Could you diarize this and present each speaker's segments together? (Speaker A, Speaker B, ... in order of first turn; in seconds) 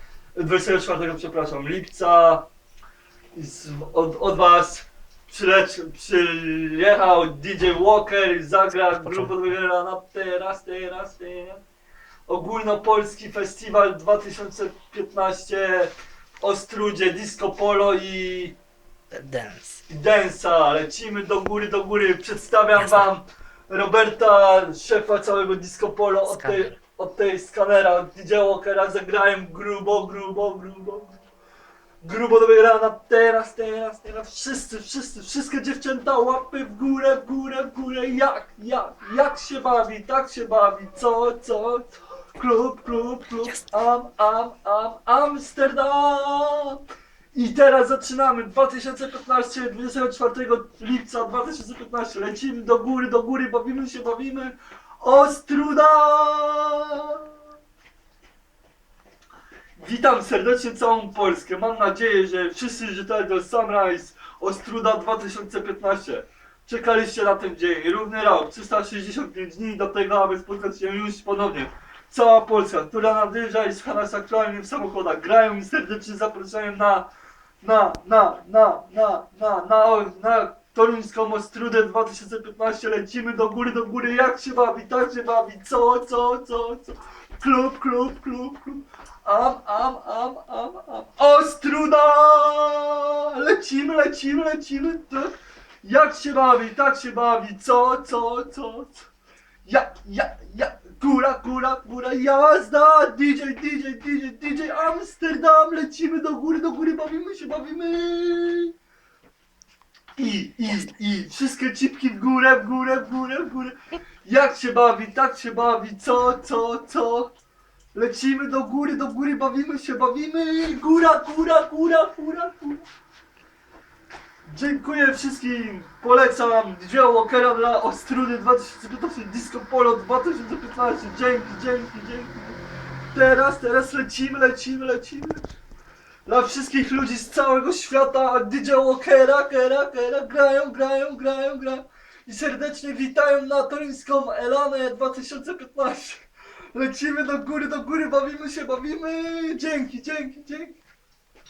Speaker A: 0.4-2.5, 3.4-11.6, 12.3-18.6, 19.9-31.2, 32.0-46.8, 47.3-57.2, 59.8-77.1, 77.6-95.3, 95.8-99.0, 99.6-108.7, 110.2-117.3, 117.9-122.8, 124.5-132.6, 133.1-135.4, 136.3-150.8
Speaker B: 8.9-9.4, 19.1-19.8, 22.7-23.1, 26.3-26.8